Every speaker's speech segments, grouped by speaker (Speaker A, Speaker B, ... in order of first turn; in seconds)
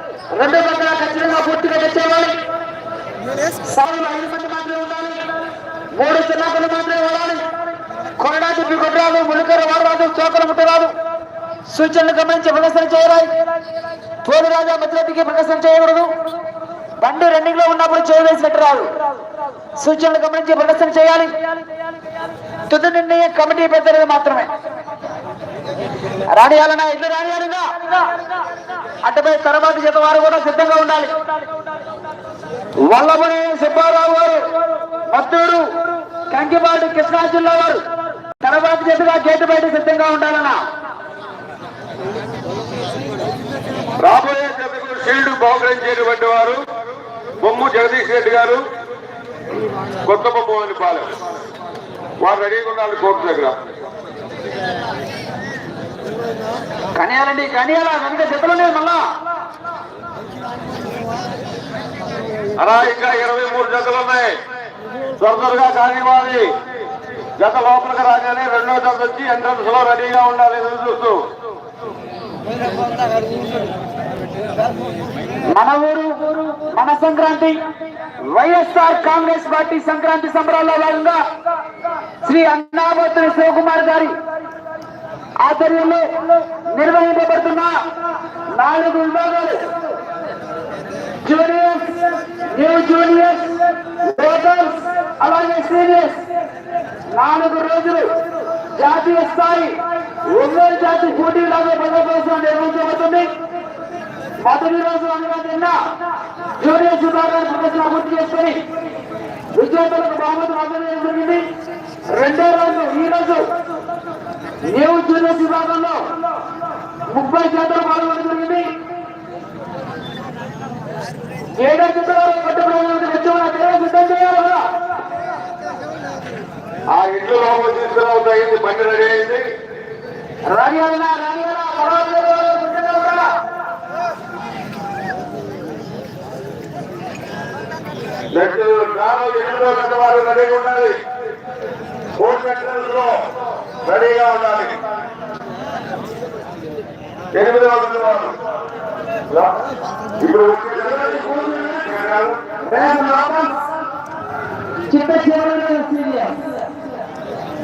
Speaker A: 0.3-2.4, 3.6-5.3, 5.9-7.4, 8.2-10.9, 11.7-13.3, 14.2-16.1, 17.0-18.9, 19.8-21.4, 22.7-24.5, 26.3-28.2, 29.0-31.2, 32.9-35.7, 36.3-37.8, 38.3-40.6, 57.0-59.0, 75.5-77.6, 78.2-81.2, 82.2-84.1, 85.4-87.7, 88.5-89.7, 91.2-96.2, 97.1-98.2, 98.7-103.3, 104.4-105.8, 106.6-108.6, 109.5-111.5, 112.1-113.5, 114.6-116.0, 117.1-118.7, 121.5-124.8, 130.5-133.3, 152.6-153.6, 154.9-156.4
Speaker B: 44.0-46.6, 47.4-48.6, 50.1-51.1, 52.2-53.5, 62.6-64.3, 65.2-66.5, 67.4-71.2, 126.9-129.4, 138.3-141.0, 142.2-143.3, 143.8-144.8, 147.3-148.3, 149.3-149.6, 150.2-152.5